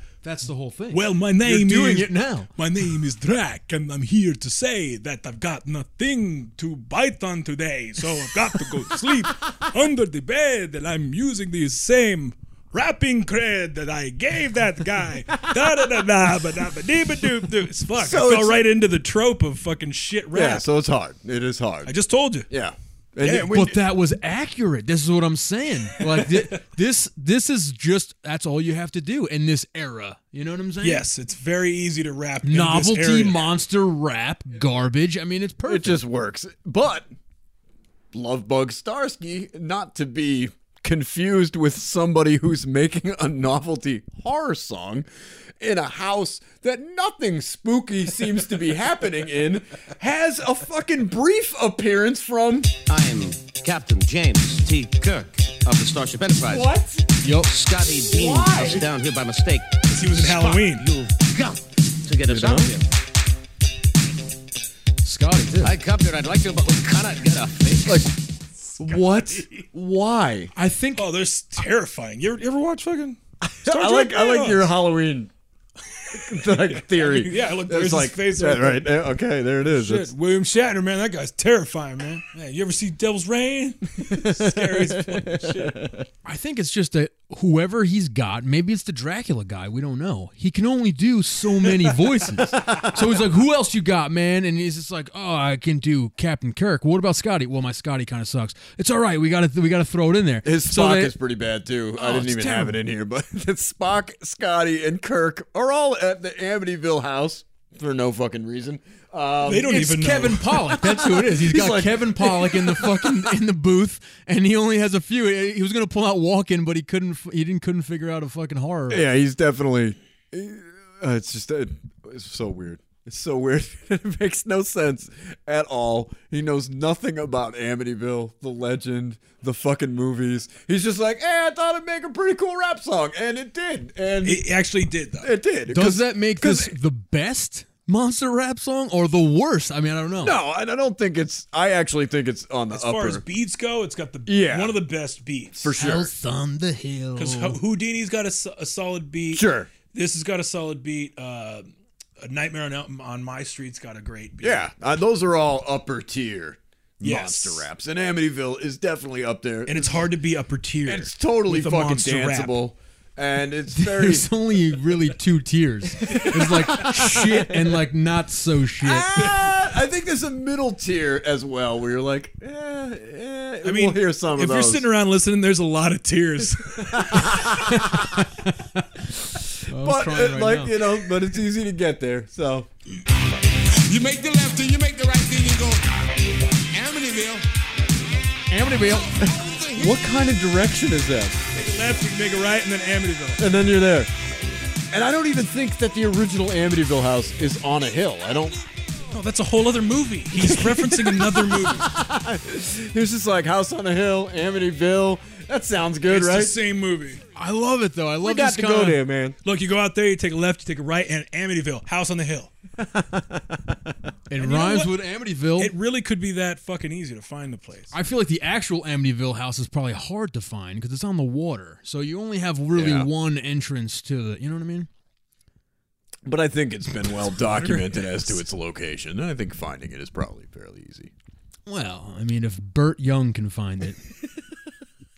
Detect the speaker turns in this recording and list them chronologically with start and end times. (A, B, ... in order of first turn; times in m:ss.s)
0:00.2-0:02.5 A
0:00.9-0:20.6 B
0:17.9-0:18.6 C
0:20.3-0:21.9 C
0:21.8-0:22.5 B
0:22.5-0:23.8 C
0:23.2-0:31.0 A
0:30.8-0:33.5 B
0:32.4-0:36.0 A
0:35.6-0:37.1 C
0:38.1-0:45.0 C
0:45.6-0:52.7 C
0:52.9-0:56.7 D
0:56.4-0:57.0 C
0:57.2-0:57.5 A
0:57.4-1:02.8 D
0:58.1-0:58.8 C
0:59.9-1:00.9 B
1:02.3-1:02.7 C
1:05.0-1:05.8 A
1:05.6-1:08.1 D
1:07.8-1:08.1 C
1:08.8-1:10.5 C
1:10.5-1:11.1 A
1:11.0-1:13.2 B
1:13.5-1:15.3 C
1:13.7-1:14.6 B
1:16.1-1:20.1 C
1:16.9-1:18.8 B
1:19.7-1:25.8 B
1:24.1-1:26.0 C
1:26.2-1:41.1 A
1:32.6-1:32.9 C
1:40.4-1:49.8 C
1:42.0-1:42.8 A
1:49.4-1:50.4 B
1:49.6-1:59.0 A
1:50.6-1:53.4 C
1:58.9-2:14.4 C
2:14.2-2:15.3 B
2:15.2-2:16.7 C
2:15.7-2:20.4 A
2:20.2-2:23.2 C
2:22.7-2:25.7 B
2:24.2-2:24.8 C
2:25.6-2:26.1 C
2:25.8-2:27.6 A
2:27.2-2:31.7 B
2:29.3-2:29.7 C
2:32.2-2:34.6 B
2:34.4-2:40.1 C
2:37.0-2:37.6 B
2:39.7-2:42.5 B
2:40.8-2:44.3 C
2:43.7-2:49.4 A
2:46.0-2:47.8 C
2:48.8-2:54.8 C
2:53.6-2:56.8 B
2:56.9-2:58.0 C
2:57.5-2:58.8 A
2:59.7-3:00.8 A
2:59.7-3:02.7 C
3:03.9-3:06.0 E
3:06.7-3:07.4 E
3:08.5-3:09.3 A
3:09.2-3:09.9 E
3:09.3-3:11.4 C
3:11.5-3:13.4 B
3:13.4-3:14.1 C
3:14.9-3:18.6 C
3:19.1-3:21.8 B
3:20.3-3:26.5 C
3:26.1-3:27.2 B
3:27.3-3:29.0 A
3:28.2-3:29.4 C
3:29.4-3:32.5 B
3:32.8-3:33.8 C
3:34.3-3:35.7 A
3:34.4-3:34.9 B
3:35.6-3:37.9 B
3:37.9-3:44.9 A
3:42.7-3:43.1 C
3:46.2-3:51.1 C
3:51.7-3:54.0 A